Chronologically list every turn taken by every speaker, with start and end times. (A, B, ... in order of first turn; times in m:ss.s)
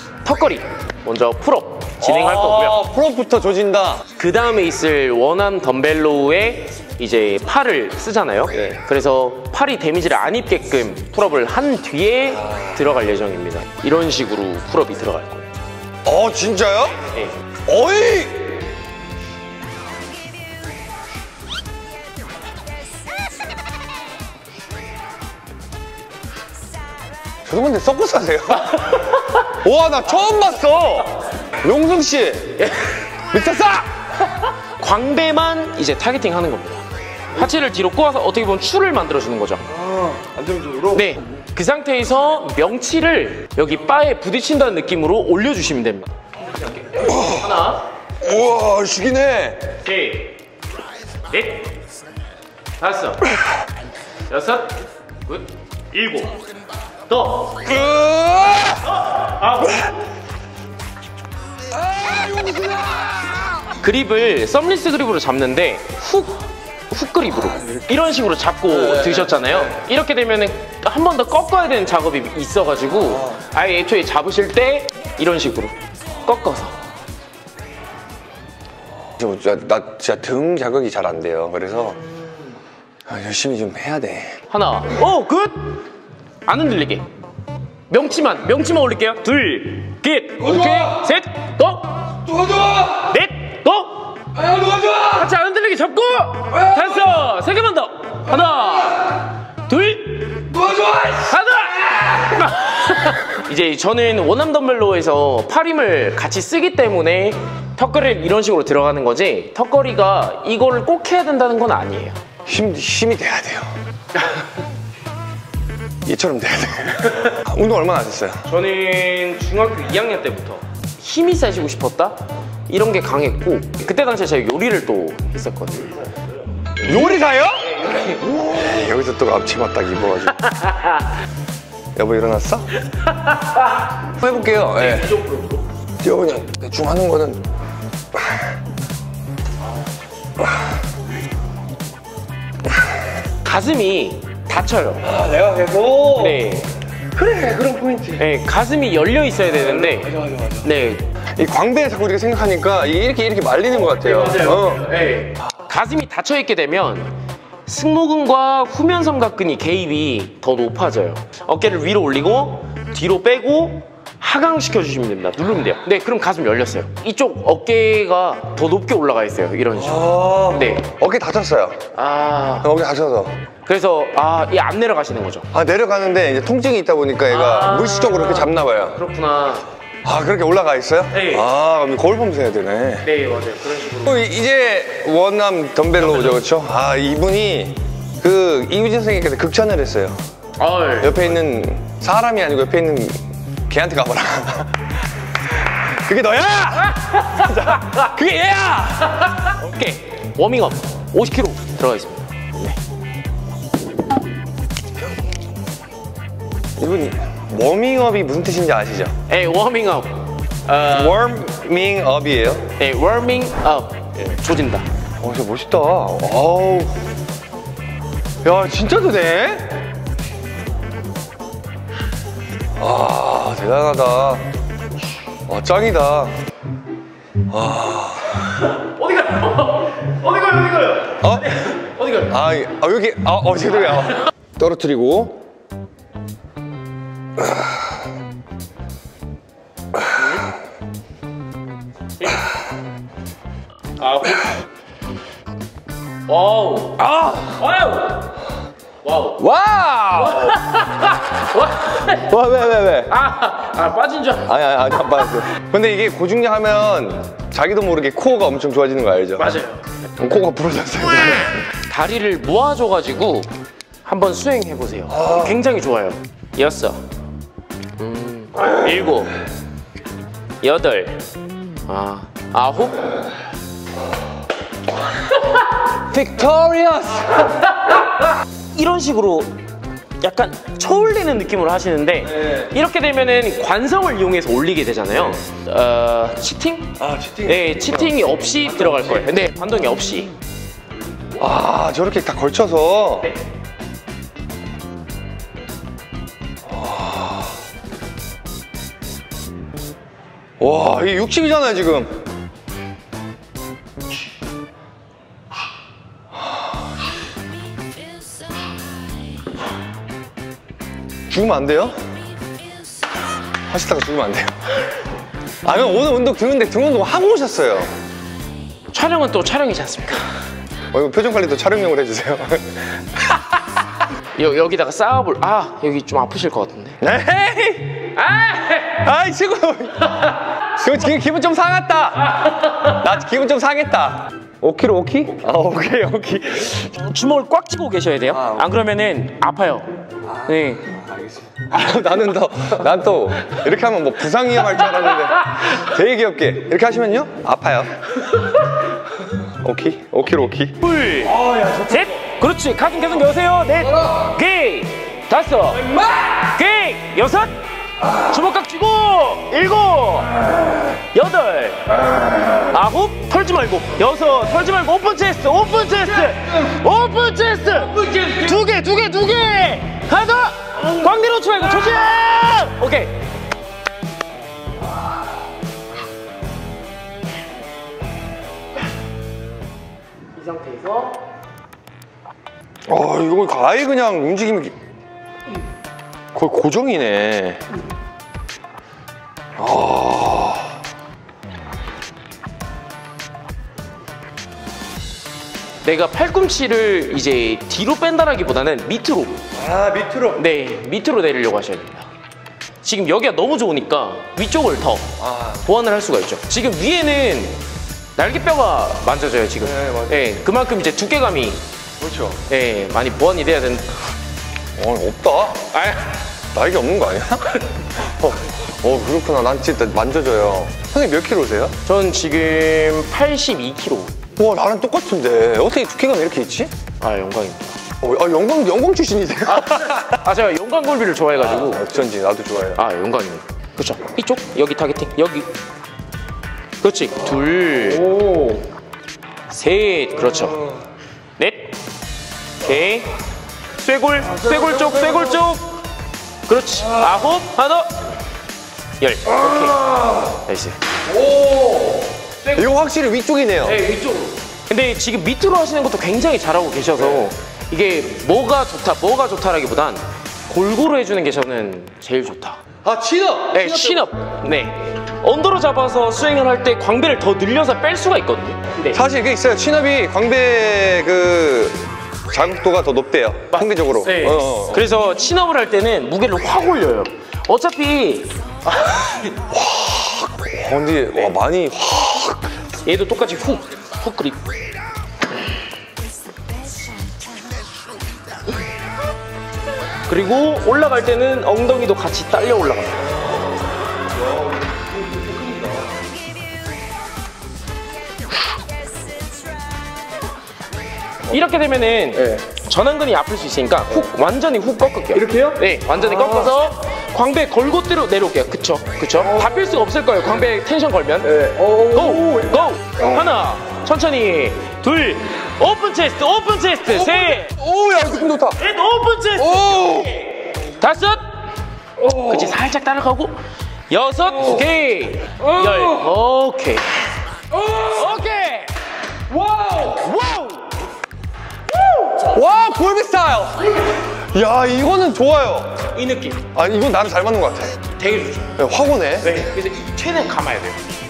0:00.2-0:02.8 A
0:02.0-0:04.0 B
0:04.2-0:15.5 A
0:08.5-0:08.8 B
0:12.3-0:12.8 B
0:16.1-0:17.0 B
0:17.7-0:18.6 B
0:27.5-0:32.6 B
0:32.6-0:33.1 A
0:33.3-0:33.9 B
0:34.4-0:39.6 A
0:39.8-0:41.2 B
0:40.9-0:47.8 A
0:47.0-0:47.5 B
0:48.2-0:49.7 B
0:49.8-0:50.4 A
0:51.3-0:51.7 A
0:52.8-0:53.4 A
0:54.3-0:56.4 A
0:57.1-0:57.7 A
0:57.6-0:58.9 B
0:58.8-1:00.0 A
1:01.9-1:03.4 B
1:03.8-1:16.8 A
1:19.2-1:22.0 B
1:23.1-1:24.4 B
1:24.5-1:25.9 A
1:26.5-1:27.1 A
1:27.9-1:32.2 A
1:30.5-1:30.8 B
1:32.3-1:33.0 B
1:32.8-1:52.2 A
1:34.4-1:35.2 B
1:40.6-1:41.3 B
1:52.5-1:53.7 B
1:56.0-1:58.4 B
1:58.5-2:06.2 A
2:06.8-2:10.5 B
2:07.8-2:08.2 A
2:10.4-2:11.1 A
2:12.0-2:12.7 B
2:13.2-2:13.7 A
2:14.0-2:15.2 B
2:14.8-2:15.6 A
2:16.0-2:17.4 B
2:18.2-2:18.4 B
2:23.4-2:25.1 A
2:25.0-2:26.6 B
2:26.1-2:26.7 A
2:27.1-2:28.3 B
2:28.2-2:31.1 A
2:29.4-2:30.7 B
2:31.4-2:34.9 B
2:33.9-2:37.1 A
2:37.7-2:50.9 A
2:49.7-2:51.8 B
2:51.9-2:52.7 A
2:52.6-2:53.4 B
2:53.7-2:55.5 A
2:55.5-2:59.0 B
2:57.3-2:59.7 A
3:00.0-3:03.1 B
3:01.1-3:01.5 A
3:03.0-3:04.2 A
3:04.0-3:10.2 B
3:10.6-3:11.3 A
3:11.0-3:14.9 B
3:15.5-3:19.3 B
3:17.2-3:17.9 A
3:19.3-3:22.8 A
3:26.8-3:29.1 B
3:29.3-3:31.3 A
3:30.8-3:32.7 B
3:32.8-3:34.9 A
3:35.2-3:37.0 B
3:38.4-3:39.8 B
3:42.8-3:44.4 B
3:45.5-3:46.3 B
3:47.5-3:48.4 B
3:48.5-3:52.3 A
3:51.2-3:51.6 B
3:52.2-3:55.4 B
4:00.2-4:00.4 A
4:04.0-4:04.6 A
4:06.3-4:07.0 A
4:07.0-4:07.7 B
4:07.6-4:08.4 A
4:09.0-4:09.4 A
4:09.4-4:10.6 B
4:10.2-4:12.3 A
4:12.1-4:13.1 B
4:13.1-4:14.5 A
4:14.5-4:19.5 B
4:19.4-4:19.8 A
4:20.2-4:21.6 B
4:21.7-4:23.5 A
4:24.0-4:27.0 A
4:25.1-4:25.6 B
4:28.0-4:29.3 A
4:30.6-4:31.2 A
4:31.9-4:33.2 A
4:36.1-4:37.5 B
4:37.7-4:38.0 A
4:38.7-4:39.6 A
4:40.2-4:50.3 A
4:47.0-4:49.0 B
4:51.4-4:53.3 B
4:56.7-4:57.5 B
5:00.6-5:02.2 B
5:11.3-5:12.0 B
5:13.7-5:14.6 B
5:15.6-5:17.9 B
5:18.9-5:20.3 A
5:20.9-5:23.4 B
5:24.4-5:27.0 A
5:27.0-5:28.1 B
5:28.2-5:29.0 A
5:28.9-5:36.8 B
5:36.7-5:39.9 A
5:38.3-5:38.7 B
5:40.4-5:40.9 A
5:40.4-5:47.9 B
5:45.0-5:45.8 A
5:49.4-5:50.8 B
5:50.8-5:57.6 A
5:51.4-5:52.0 B
5:58.1-6:00.4 A
6:01.1-6:02.0 A
6:02.5-6:13.2 A
6:20.4-6:21.2 A
6:22.9-6:24.7 B
6:26.3-6:27.6 B
6:29.6-6:30.7 B
6:35.8-6:39.4 A
6:39.5-6:40.4 B
6:40.4-6:42.1 A
6:42.8-6:47.6 A
6:45.2-6:45.6 B
6:48.2-6:51.6 A
6:49.6-6:50.3 B
6:52.0-6:52.4 B
6:52.5-6:53.9 A
6:54.8-6:55.7 B
6:55.7-6:56.2 A
6:56.5-7:01.7 B
7:01.8-7:04.2 A
7:04.4-7:06.7 B
7:07.0-7:07.8 A
7:08.0-7:10.0 B
7:09.5-7:11.8 A
7:11.4-7:12.8 B
7:12.8-7:15.5 A
7:16.8-7:18.4 A
7:18.2-7:18.6 B
7:19.5-7:20.7 A
7:21.4-7:21.7 A
7:22.6-7:23.2 A
7:23.8-7:25.8 A
7:26.5-7:28.0 A
7:29.0-7:30.8 A
7:31.1-7:33.8 B
7:33.6-7:42.6 A
7:42.8-7:44.1 B
7:43.5-7:49.0 A
7:48.9-7:54.9 B
7:53.5-7:59.4 A
7:59.5-8:02.4 B
8:02.8-8:04.4 A
8:10.1-8:13.0 A
8:15.1-8:15.7 B
8:21.3-8:37.6 A
8:25.1-8:26.5 B
8:31.3-8:32.5 B
8:36.9-8:38.6 B
8:38.6-8:41.2 A
8:39.4-8:40.1 B
8:42.0-8:42.4 B
8:42.1-8:43.4 A
8:43.9-8:47.0 A
8:47.8-8:48.7 A
8:49.3-8:49.9 B
8:49.7-8:50.8 A
8:51.9-8:52.2 A
8:52.2-8:55.9 B
8:55.9-8:56.4 A
8:56.5-8:57.8 B
8:58.0-8:58.5 A
8:58.6-8:59.3 B
8:59.2-9:00.8 A